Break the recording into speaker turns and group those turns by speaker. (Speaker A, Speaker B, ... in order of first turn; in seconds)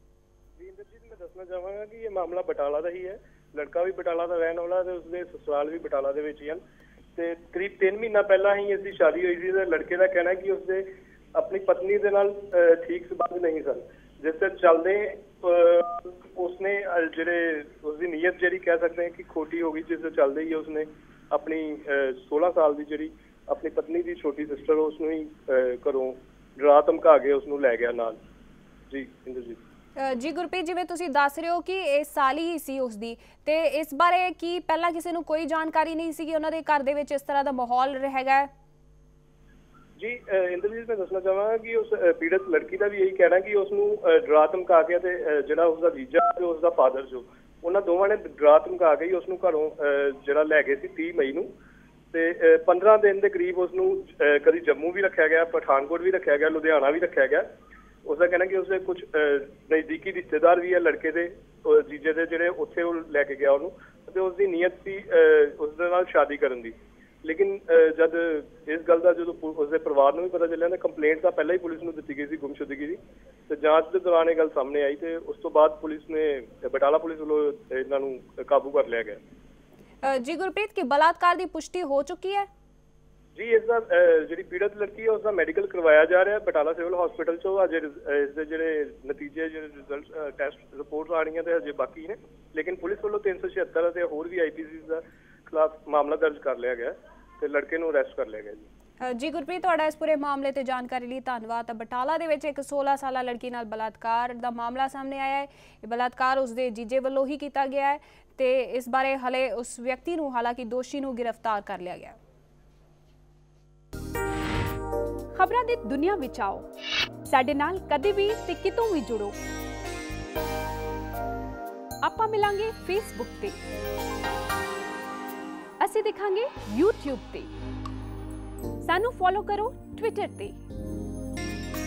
Speaker A: 0.6-6.6, 7.2-28.2, 28.9-29.6, 40.0-51.5, 52.1-57.5, 58.0-79.2, 83.4-98.7
Speaker B: 30.0-38.5, 80.0-82.5, 99.0-112.2
Speaker C: 115.3-116.7, 117.2-119.3, 122.0-123.6, 125.8-127.5, 128.8-130.6